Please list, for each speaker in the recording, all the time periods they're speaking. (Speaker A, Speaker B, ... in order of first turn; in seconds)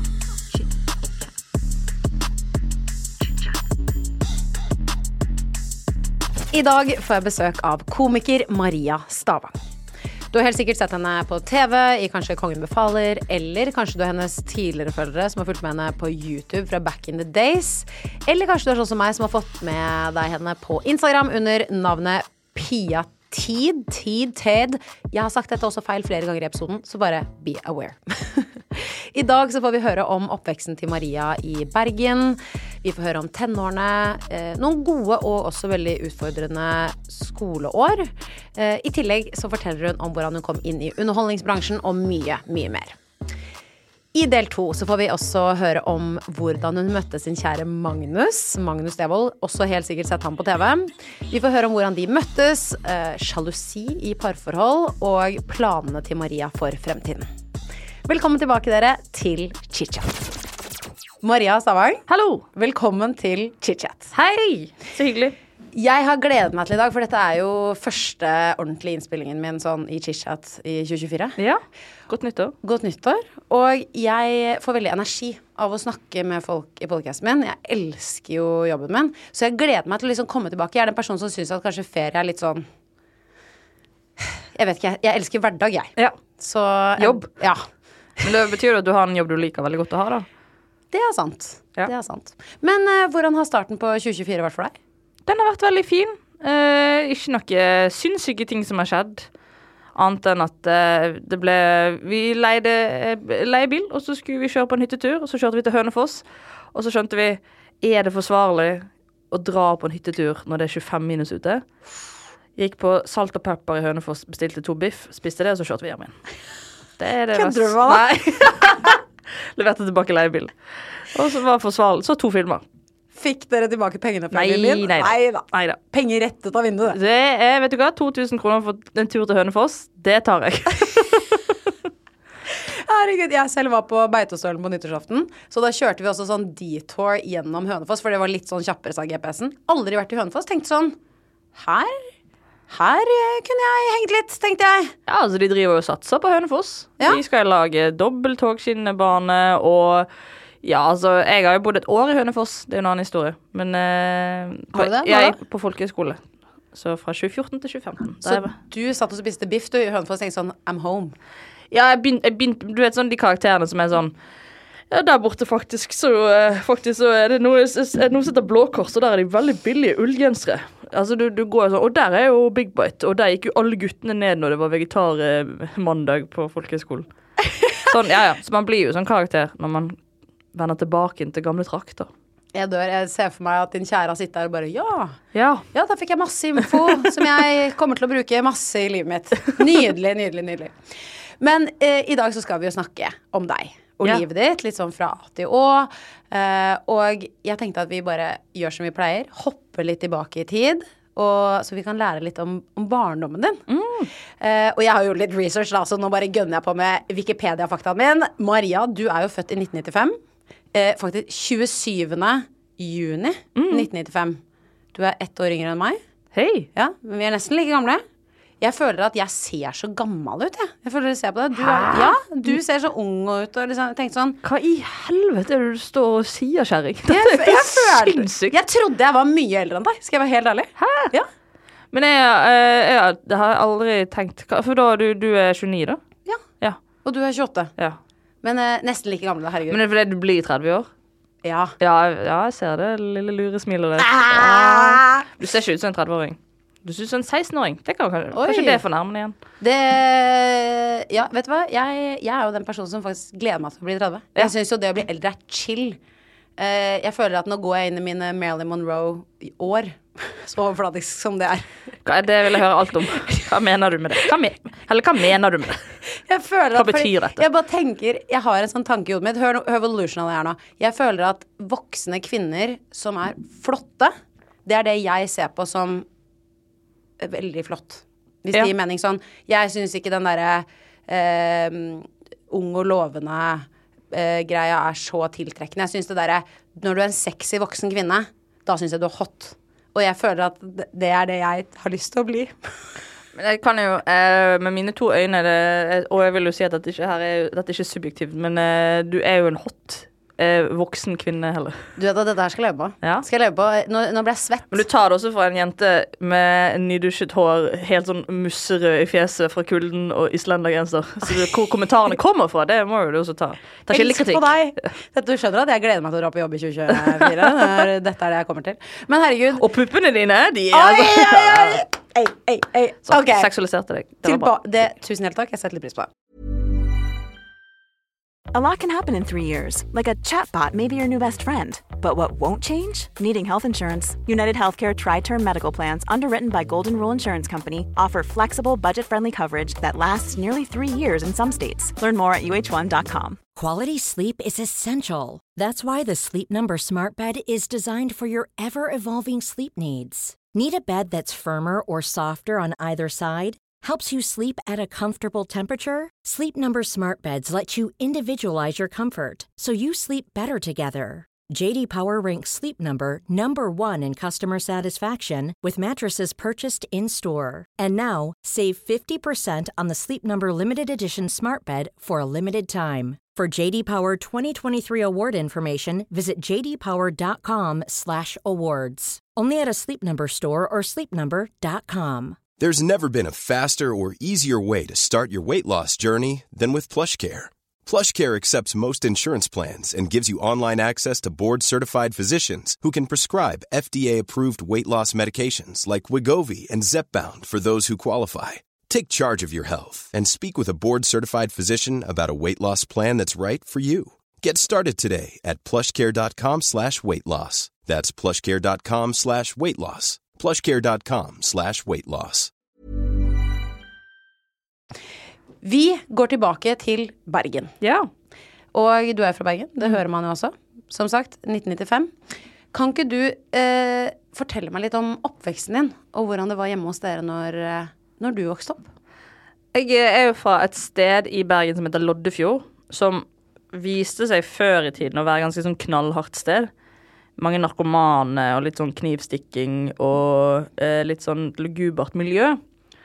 Speaker A: 3.3-3.5, 6.5-9.6, 10.3-43.0, 44.1-57.3, 58.0-60.4, 61.2-64.1, 65.7-71.4, 72.6-82.7, 84.5-87.6, 90.9-94.7, 117.3-118.6, 123.1-127.0, 132.7-140.9, 141.5-142.1, 142.7-144.9, 154.7-155.4, 158.2-161.2, 182.5-185.2, 185.7-190.7, 191.4-203.6, 204.4-210.2, 210.7-214.4, 214.9-216.0, 216.7-218.0, 218.6-224.4, 227.1-231.3, 237.0-237.7, 238.4-239.8, 241.4-241.7, 244.1-245.2, 248.3-248.8, 249.6-256.0, 256.6-261.7, 266.1-274.1, 274.6-276.0, 277.2-292.6, 301.9-304.9, 313.9-319.6, 320.7-323.5, 324.2-326.1, 415.6-417.7, 418.7-422.1, 422.7-428.9
Speaker B: 62.1-62.4, 64.1-65.3, 71.4-72.5, 87.0-87.3, 88.2-90.2, 95.3-99.3, 99.9-111.7, 112.5-116.2, 117.0-119.0, 119.5-122.6, 124.3-125.8, 126.9-131.5, 145.1-150.1, 150.6-156.2, 156.7-158.5, 161.7-164.1, 164.9-177.1, 177.8-180.0, 180.5-182.1, 185.3-185.6, 203.7-204.1, 213.5-213.9, 216.3-216.7, 221.6-222.1, 224.4-228.6, 230.8-231.1, 231.9-236.0, 239.7-240.9, 241.8-249.3, 262.0-266.0, 266.8-267.4, 293.4-301.8, 304.7-314.5, 317.1-317.4, 319.6-321.9, 323.1-324.5, 417.8-418.1, 429.7-436.7, 437.4-442.6
Speaker C: 328.5-343.4
Speaker D: 343.6-382.4
Speaker E: 382.6-412.5